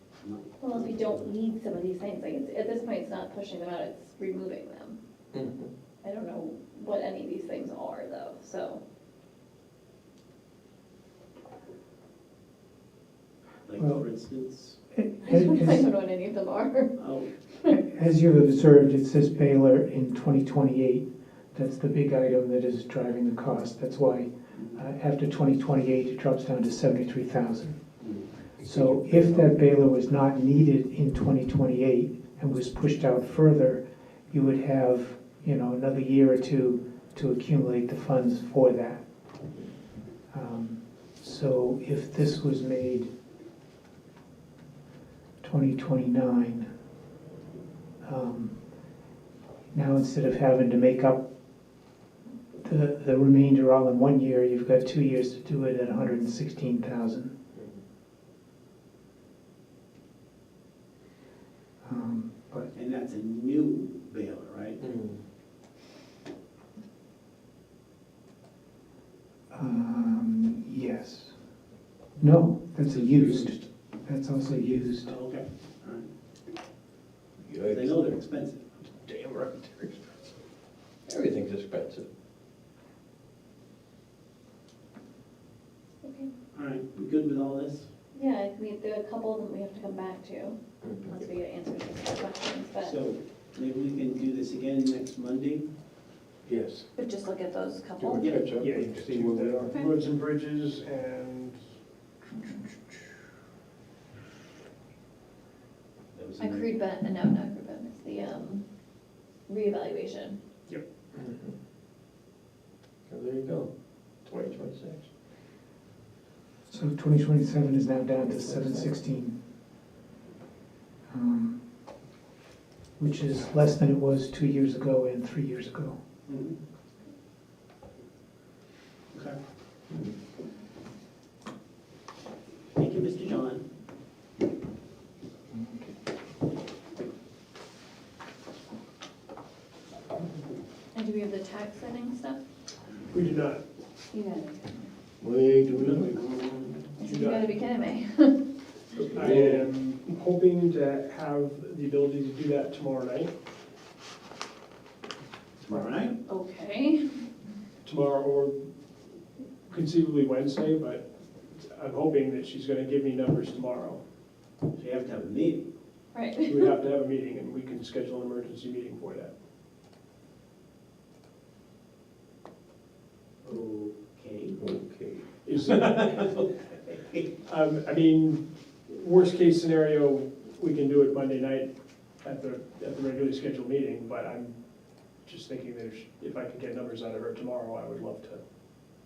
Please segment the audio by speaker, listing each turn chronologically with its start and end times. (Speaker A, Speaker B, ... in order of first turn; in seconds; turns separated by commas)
Speaker A: 0.2-0.8, Speaker B: 0.6-5.0, Speaker C: 5.3-5.7, Speaker B: 6.0-8.8, Speaker A: 13.7-14.8, Speaker D: 14.9-15.9, Speaker B: 15.2-16.9, Speaker A: 16.9-17.3, Speaker D: 17.7-27.8, Speaker A: 24.5-24.8, Speaker A: 28.0-28.3, Speaker D: 28.6-39.0, Speaker C: 28.7-29.5, Speaker D: 40.3-43.1, Speaker D: 45.4-46.7, Speaker D: 48.0-48.6, Speaker D: 49.7-51.3, Speaker D: 52.6-57.3, Speaker C: 57.5-57.8, Speaker D: 61.8-62.7, Speaker A: 62.7-64.8, Speaker C: 64.8-65.2, Speaker D: 69.5-71.3, Speaker D: 72.2-75.1, Speaker A: 75.0-76.1, Speaker C: 77.4-78.2, Speaker A: 77.6-78.7, Speaker C: 78.8-80.3, Speaker C: 81.1-82.1, Speaker B: 86.0-86.3, Speaker A: 86.5-87.9, Speaker B: 88.1-92.9, Speaker C: 90.8-91.2, Speaker A: 92.8-95.7, Speaker C: 96.5-96.9, Speaker B: 96.9-98.4, Speaker C: 98.0-99.7, Speaker A: 98.2-98.4, Speaker E: 98.5-101.6, Speaker B: 99.7-100.1, Speaker E: 102.2-103.0, Speaker A: 106.1-106.8, Speaker B: 106.4-108.7, Speaker B: 109.5-110.4, Speaker C: 111.1-111.6, Speaker C: 113.1-113.7, Speaker C: 114.2-115.1, Speaker D: 116.7-119.4, Speaker D: 121.1-121.6, Speaker D: 123.0-126.0, Speaker A: 126.3-126.6, Speaker A: 129.1-129.4, Speaker A: 132.8-133.7, Speaker B: 140.9-142.4, Speaker E: 143.1-143.6, Speaker B: 144.1-144.9, Speaker C: 145.2-146.1, Speaker A: 145.7-146.9, Speaker B: 147.0-148.4, Speaker E: 147.0-147.4, Speaker E: 148.9-153.3, Speaker C: 149.2-149.7, Speaker A: 155.6-156.2, Speaker B: 156.2-157.1, Speaker E: 157.8-158.6, Speaker E: 159.7-164.0, Speaker A: 164.8-165.7, Speaker B: 166.1-166.7, Speaker E: 166.4-169.3, Speaker A: 173.4-174.6, Speaker C: 174.6-175.2, Speaker E: 175.4-176.4, Speaker A: 175.7-177.2, Speaker E: 177.4-184.6, Speaker E: 185.2-188.4